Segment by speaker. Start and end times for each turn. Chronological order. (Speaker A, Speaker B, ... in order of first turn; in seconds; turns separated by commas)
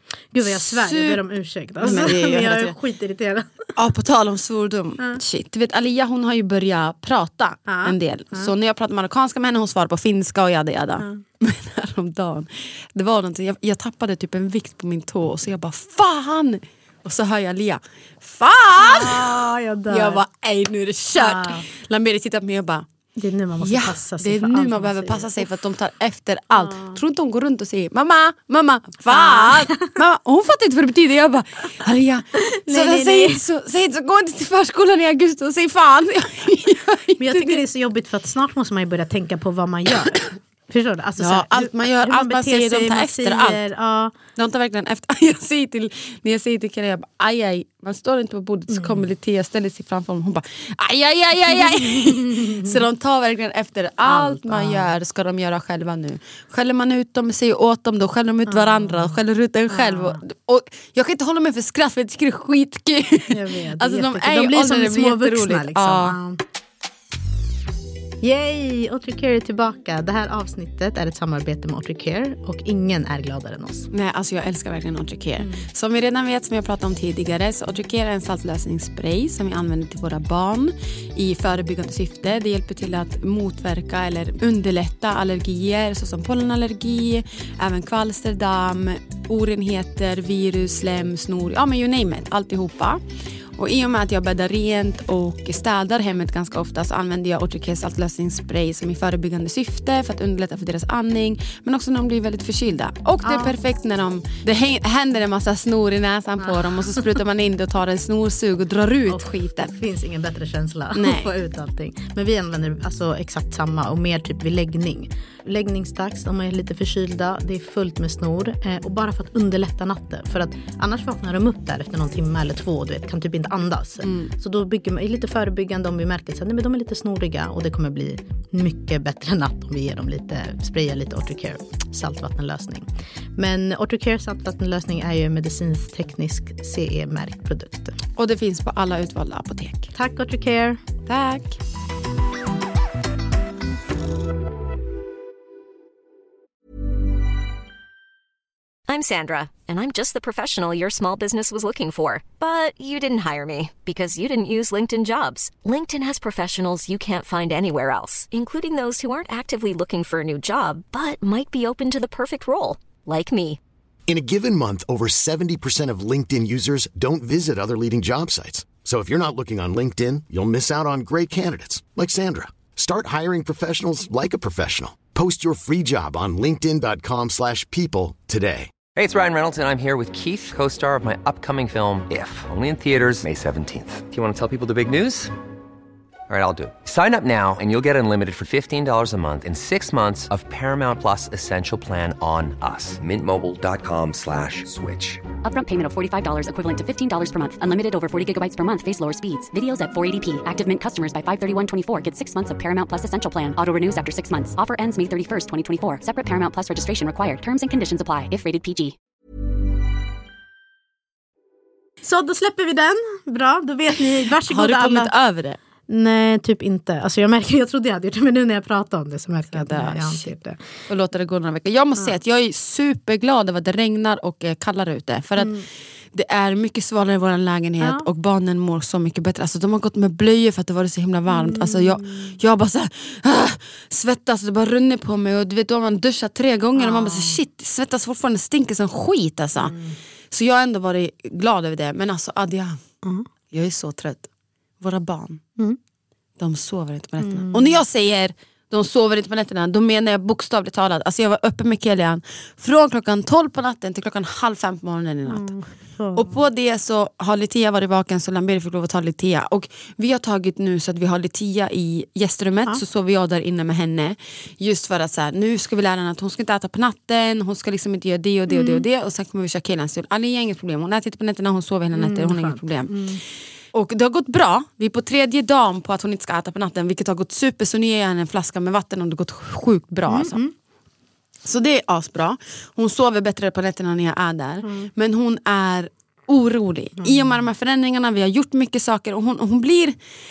Speaker A: 0.3-3.6, Speaker B: 0.4-1.2, Speaker B: 1.8-2.8, Speaker B: 3.8-22.9, Speaker A: 7.7-8.5, Speaker A: 18.8-20.2, Speaker A: 21.1-21.6, Speaker A: 23.2-25.5, Speaker B: 23.6-37.6, Speaker A: 26.6-27.0, Speaker A: 29.1-30.0, Speaker A: 32.4-33.4, Speaker A: 37.2-44.1, Speaker B: 41.2-43.6, Speaker B: 44.4-66.2, Speaker A: 48.7-49.0, Speaker A: 51.8-52.8, Speaker A: 54.0-54.9, Speaker A: 58.5-59.2, Speaker A: 59.7-60.2, Speaker A: 63.3-66.4, Speaker A: 68.2-73.9, Speaker B: 73.9-93.0, Speaker A: 75.4-75.7, Speaker B: 93.6-109.7, Speaker A: 103.2-103.6, Speaker A: 106.4-107.1, Speaker A: 109.1-138.0, Speaker B: 110.9-111.3, Speaker B: 124.0-124.3, Speaker B: 138.2-139.9, Speaker A: 139.9-140.8, Speaker B: 141.1-141.6, Speaker C: 148.9-163.6, Speaker D: 164.1-178.7, Speaker E: 178.9-185.3, Speaker E: 186.3-195.2, Speaker F: 195.4-208.9, Speaker A: 212.0-215.1, Speaker B: 214.4-215.6, Speaker A: 215.9-220.6, Speaker B: 219.5-220.4, Speaker B: 220.9-239.8, Speaker A: 225.4-225.7, Speaker A: 227.8-228.1, Speaker A: 231.3-232.4, Speaker A: 236.8-237.4, Speaker A: 239.6-240.0, Speaker B: 240.3-242.8, Speaker B: 243.5-244.3, Speaker B: 244.8-245.4, Speaker B: 246.4-255.5, Speaker A: 247.2-247.8, Speaker A: 255.3-256.4, Speaker B: 256.1-273.0, Speaker A: 268.5-268.8, Speaker A: 271.9-273.2, Speaker B: 273.7-280.4, Speaker A: 280.1-280.5, Speaker B: 281.4-290.0, Speaker A: 284.6-284.9, Speaker A: 287.0-287.4